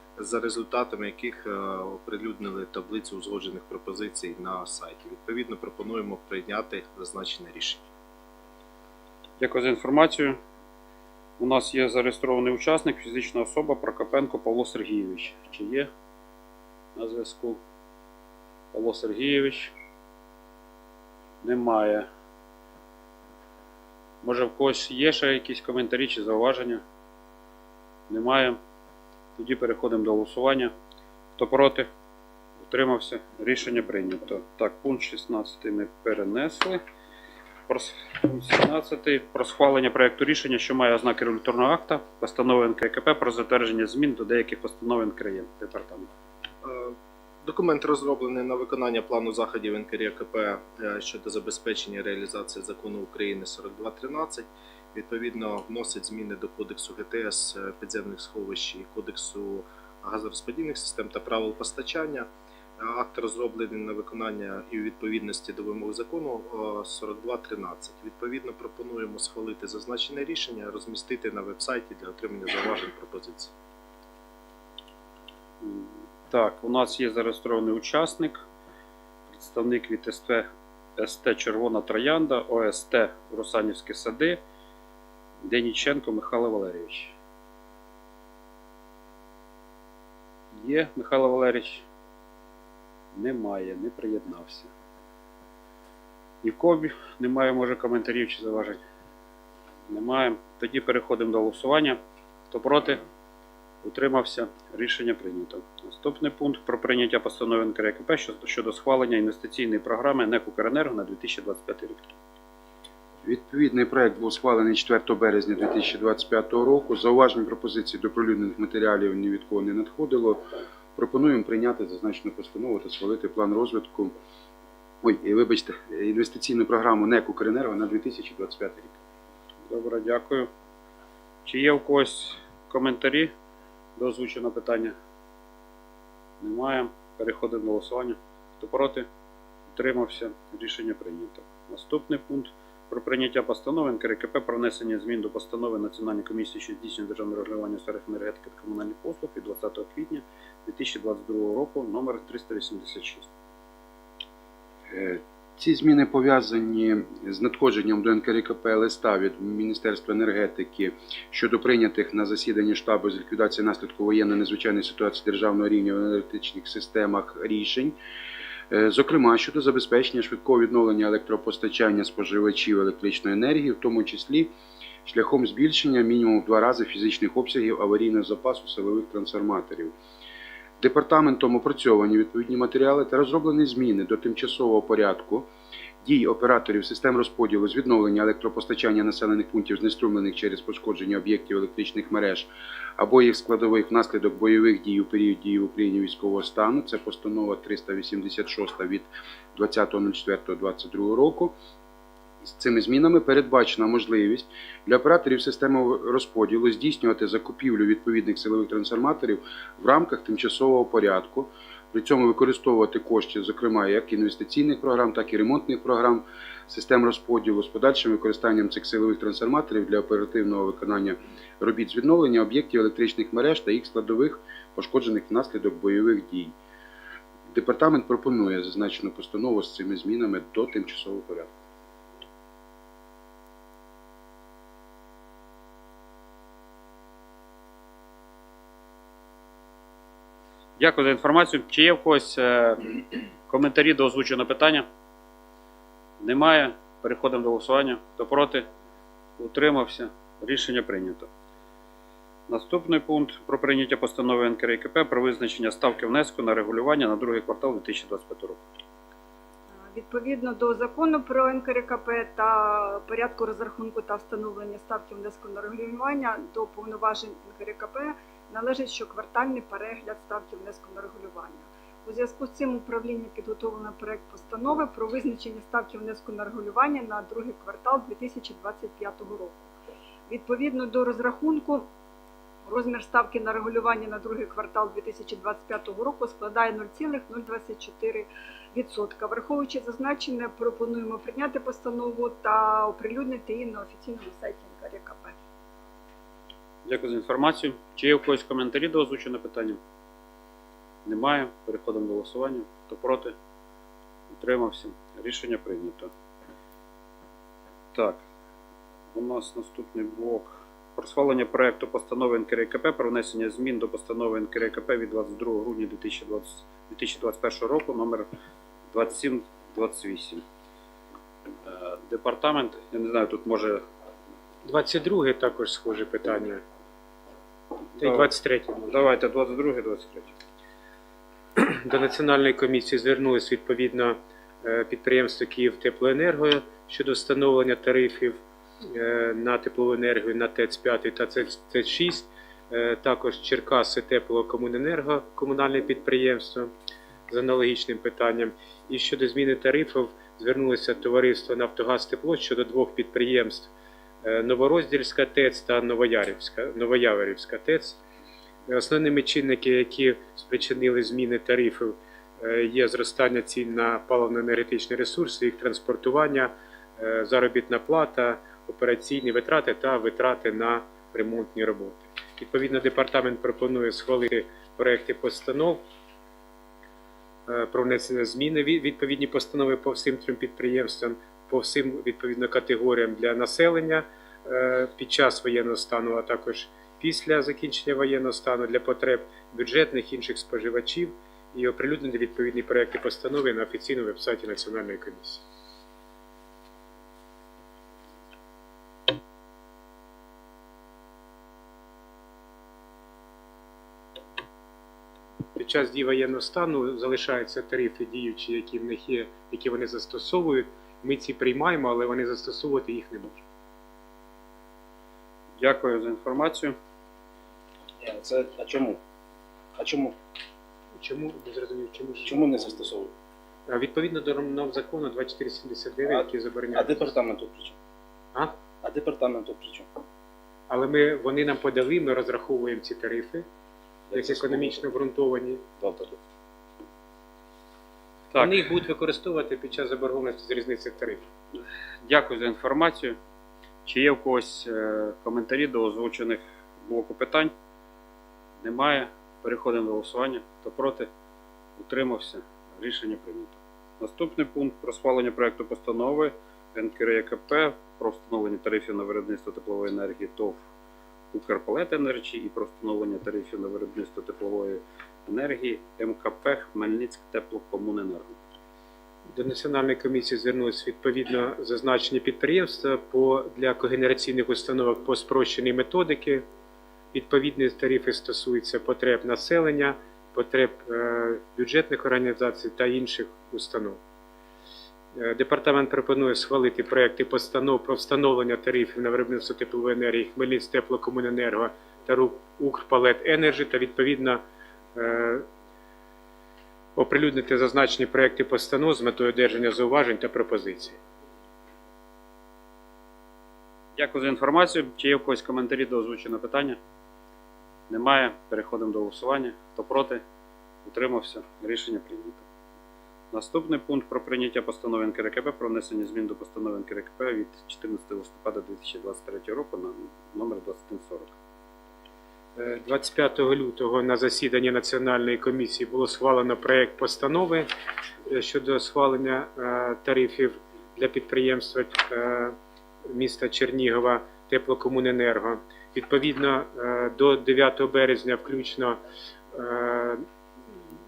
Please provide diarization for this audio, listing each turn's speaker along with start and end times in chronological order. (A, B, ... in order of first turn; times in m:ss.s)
0:00.2-0:07.8 A
0:09.4-0:10.4 B
0:11.4-0:15.9 B
0:17.0-0:17.6 B
0:18.7-0:19.7 B
0:21.4-0:22.1 B
0:24.2-0:26.8 B
0:28.1-0:28.6 B
0:29.4-0:30.7 B
0:31.4-0:31.9 B
0:32.6-0:36.8 B
0:37.7-0:46.1 B
0:46.6-1:02.3 A
1:02.8-1:13.5 A
1:15.6-1:18.4 B
1:19.3-1:24.4 B
1:25.4-1:27.1 B
1:30.5-1:31.8 B
1:33.1-1:34.7 B
1:36.4-1:38.8 B
1:39.9-1:43.0 B
1:43.8-1:52.1 B
1:53.2-2:04.1 C
2:05.0-2:09.0 C
2:09.7-2:10.5 B
2:11.4-2:13.3 B
2:14.0-2:14.9 B
2:16.4-2:19.1 B
2:19.7-2:33.3 B
2:34.9-2:48.0 C
2:48.7-2:54.5 C
2:55.0-2:59.9 C
3:00.8-3:05.5 C
3:06.0-3:21.6 C
3:22.4-3:46.5 C
3:47.5-3:51.6 C
4:00.8-4:04.8 B
4:06.2-4:08.7 B
4:09.4-4:11.3 B
4:12.5-4:18.6 B
4:19.9-4:39.7 D
4:40.3-4:41.8 D
4:42.6-4:55.3 D
4:56.8-4:59.8 B
5:01.0-5:03.3 B
5:04.3-5:06.1 B
5:07.9-5:08.2 B
5:09.1-5:18.3 B
5:18.9-5:20.4 B
5:21.6-5:23.8 B
5:24.6-5:26.6 E
5:28.0-5:28.3 B
5:28.0-5:29.0 E
5:28.9-5:30.3 B
5:31.6-5:46.7 E
5:47.3-5:53.7 E
5:54.2-5:58.0 E
5:58.7-6:15.8 E
6:17.5-6:35.4 E
6:45.6-6:53.4 E
6:55.6-6:56.7 B
6:58.0-6:59.0 F
6:59.8-7:00.2 F
7:01.0-7:02.8 E
7:02.2-7:03.1 F
7:03.7-7:07.1 E
7:06.0-7:07.8 F
7:08.8-7:09.9 F
7:10.7-7:13.4 E
7:14.1-7:14.8 F
7:14.1-7:15.6 E
7:15.8-7:16.2 F
7:18.3-7:21.3 E
7:18.3-7:18.7 B
7:22.0-7:23.2 B
7:23.8-7:27.5 B
7:28.6-7:31.1 B
7:31.8-7:40.6 B
7:41.3-7:48.4 B
7:49.3-7:56.4 E
7:57.1-8:04.0 E
8:05.1-8:14.4 E
8:14.9-8:15.4 E
8:17.0-8:21.0 E
8:24.0-8:26.8 B
8:27.9-8:30.2 B
8:30.8-8:32.4 B
8:33.3-8:41.3 B
8:42.6-8:47.7 E
8:48.3-8:52.6 E
8:53.1-8:59.0 E
8:59.5-9:00.2 E